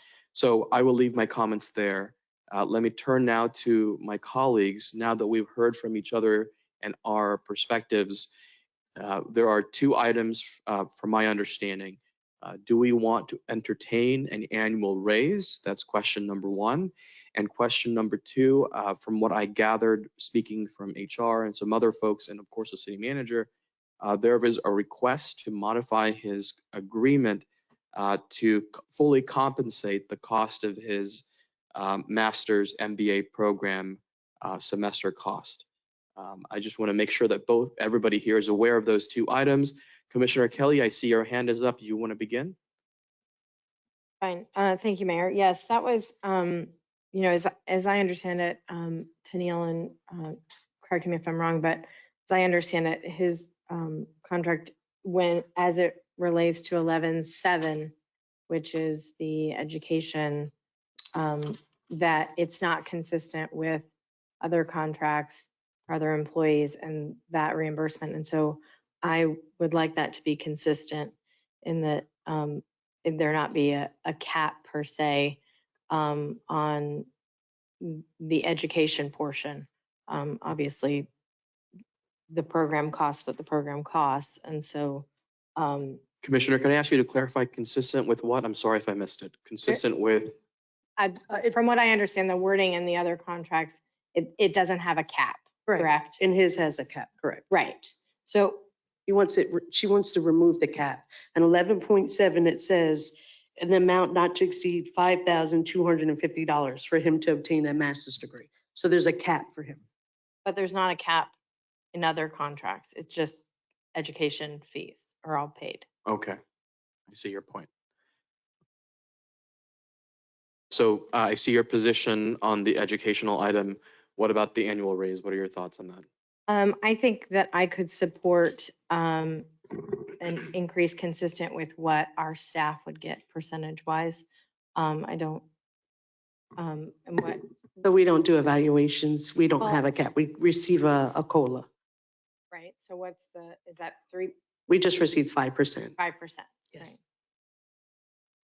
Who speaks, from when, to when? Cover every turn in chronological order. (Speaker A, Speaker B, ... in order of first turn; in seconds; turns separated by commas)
Speaker A: 0.3-8.3, Speaker A: 9.0-23.5, Speaker A: 24.0-35.6, Speaker A: 36.2-42.5, Speaker B: 44.2-57.9, Speaker B: 58.5-60.5, Speaker B: 61.1-63.9, Speaker B: 64.4-77.1, Speaker B: 77.8-81.1, Speaker B: 82.3-86.0, Speaker A: 86.2-90.4, Speaker B: 91.0-96.2, Speaker C: 95.7-97.5, Speaker B: 97.5-98.6, Speaker C: 99.1-109.8, Speaker B: 110.5-111.3, Speaker B: 111.9-113.4, Speaker B: 114.0-115.9, Speaker A: 116.1-116.4, Speaker A: 117.1-117.7, Speaker A: 120.7-126.1, Speaker B: 126.5-135.5, Speaker B: 136.6-137.5, Speaker C: 137.8-141.7, Speaker B: 139.6-139.8, Speaker B: 142.5-144.3, Speaker C: 144.7-146.0, Speaker B: 146.0-147.0